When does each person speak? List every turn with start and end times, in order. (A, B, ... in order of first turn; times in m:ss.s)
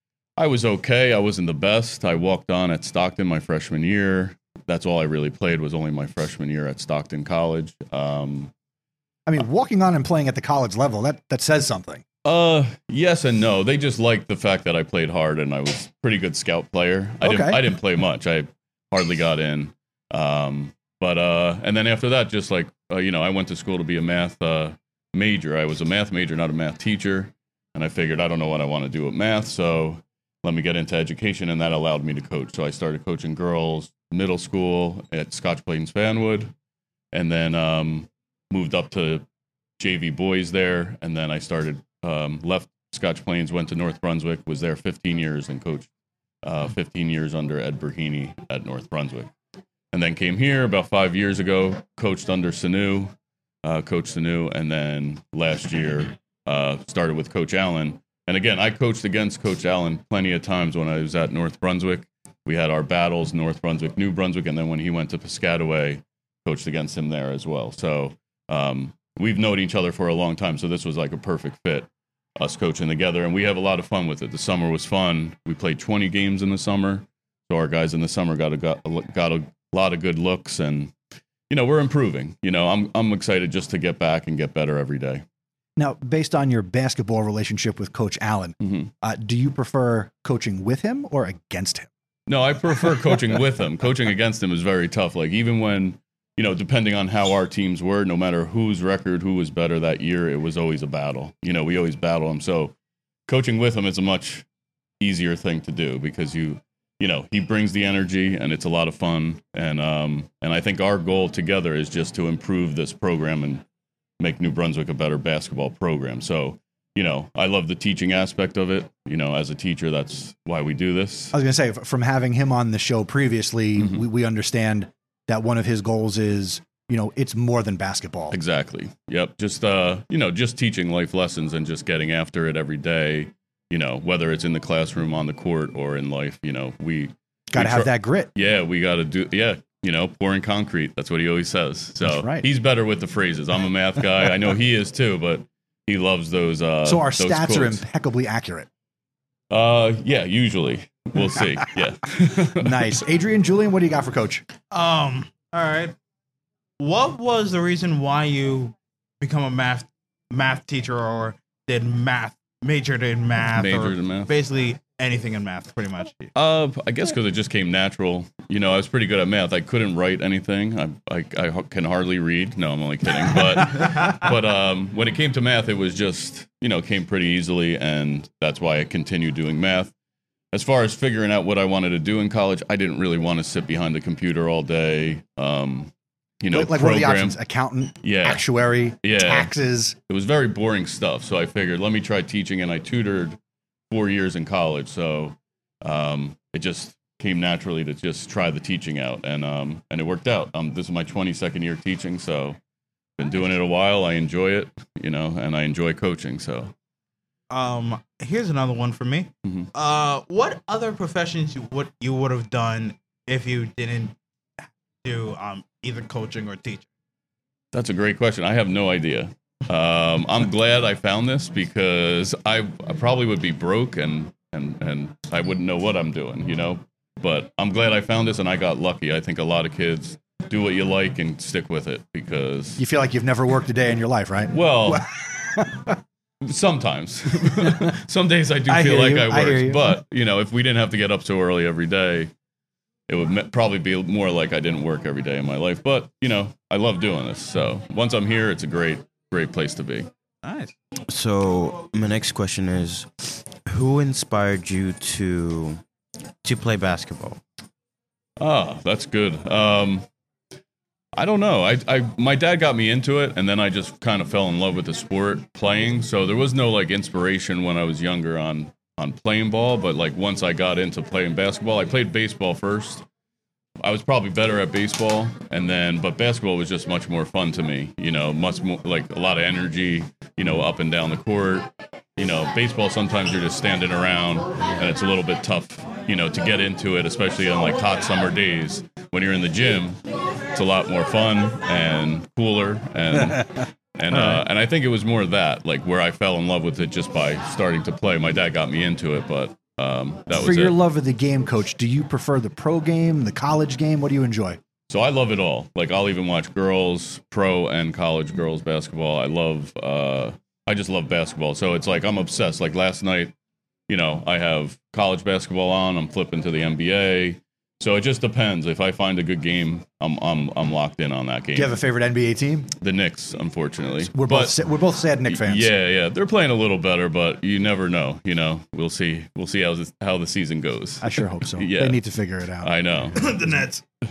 0:00.4-0:08.5 A
0:09.2-0:12.0 B
0:12.2-0:36.5 A
0:17.2-0:17.7 B
0:37.1-0:39.2 A
0:39.8-0:45.9 A
0:46.4-0:49.3 A
0:49.9-0:53.1 A
0:53.6-1:11.9 A
1:12.4-1:20.9 A
1:21.5-1:25.2 A
1:25.8-1:31.9 B
1:28.6-1:28.9 A
1:32.3-1:42.8 A
1:43.3-1:44.5 A
1:45.0-1:53.6 A
1:54.2-2:01.4 A
2:01.3-2:08.4 B
2:03.8-2:04.0 A
2:08.3-2:27.8 A
2:17.5-2:18.3 B
2:22.0-2:22.5 B
2:26.8-2:28.7 B
2:29.5-2:33.0 A
2:32.6-2:34.4 B
2:34.7-2:36.0 C
2:36.8-2:46.3 C
2:43.5-2:44.3 A
2:46.4-2:59.9 A
2:53.8-2:54.1 C
3:00.5-3:07.4 A
3:06.5-3:10.0 B
3:08.0-3:08.5 A
3:09.0-3:09.5 A
3:10.1-3:13.4 A
3:13.9-3:22.6 A
3:23.2-3:26.7 A
3:27.5-3:34.1 C
3:35.0-3:36.8 C
3:37.7-3:52.8 A
3:52.8-3:55.9 B
3:54.5-3:55.1 A
3:56.4-4:02.3 A
3:58.6-3:59.9 B
4:03.1-4:10.1 A
4:10.4-4:10.7 C
4:11.1-4:15.8 D
4:16.4-4:17.4 D
4:18.4-4:20.1 A
4:21.1-4:33.0 A
4:33.8-4:50.0 A
4:50.5-5:00.8 A
5:00.3-5:04.6 B
5:04.9-5:13.3 A
5:13.9-5:21.8 A
5:21.5-5:22.7 B
5:22.8-5:24.6 A
5:24.0-5:25.7 B
5:25.3-5:32.0 A
5:31.0-5:32.7 B
5:32.6-5:33.2 A
5:33.1-5:33.8 C